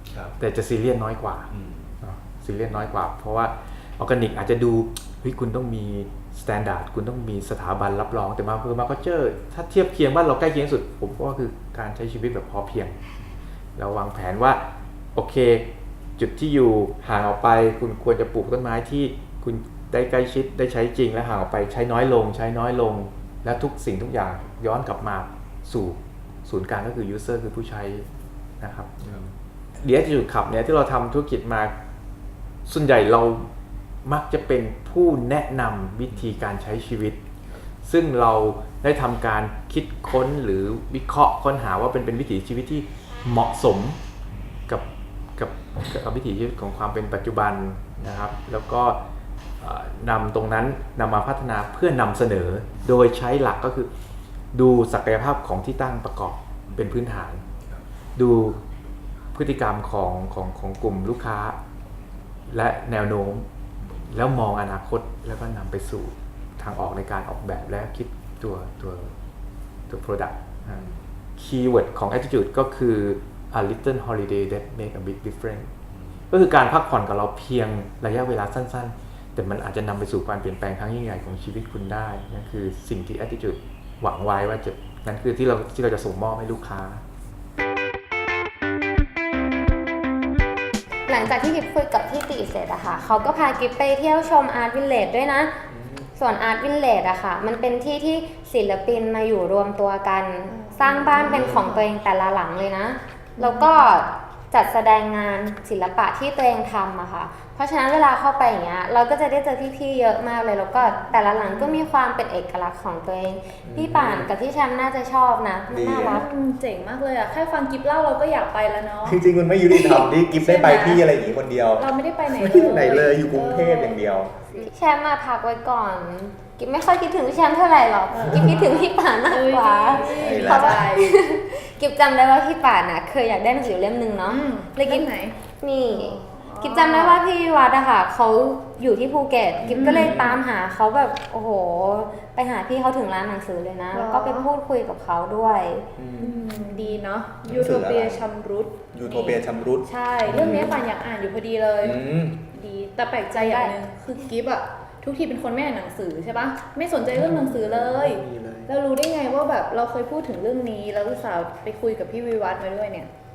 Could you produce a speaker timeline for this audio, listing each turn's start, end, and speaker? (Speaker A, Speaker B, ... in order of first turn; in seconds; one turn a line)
Speaker A: 0.4-1.5
Speaker A: 2.0-13.0
Speaker A: 13.8-28.1
Speaker A: 28.6-31.7
Speaker A: 32.6-33.5
Speaker A: 34.0-37.2
Speaker A: 37.8-44.0
Speaker A: 44.7-49.0
Speaker A: 49.6-53.9
Speaker A: 54.5-57.4
Speaker A: 58.1-58.6
Speaker A: 59.3-61.6
Speaker A: 62.5-69.1
Speaker A: 69.9-70.8
Speaker A: 71.3-75.7
Speaker A: 76.3-87.0
Speaker B: 91.1-95.5
Speaker C: 95.7-96.0
Speaker B: 96.2-116.2
Speaker D: 100.5-101.9
Speaker C: 101.2-101.8
Speaker D: 103.4-104.0
Speaker D: 110.8-111.8
Speaker C: 113.6-114.3
Speaker C: 115.7-116.2
Speaker D: 116.0-121.1
Speaker C: 119.0-124.5
Speaker D: 121.8-124.7
Speaker B: 124.6-145.9
Speaker D: 128.1-131.2
Speaker C: 128.2-128.5
Speaker C: 130.0-130.9
Speaker D: 134.2-137.2
Speaker C: 139.6-140.4
Speaker D: 139.7-140.2
Speaker D: 143.9-144.5
Speaker C: 146.0-146.4
Speaker D: 146.2-163.1
Speaker C: 147.4-148.3
Speaker C: 148.9-150.8
Speaker C: 151.8-152.4
Speaker B: 153.3-153.7
Speaker C: 157.1-158.7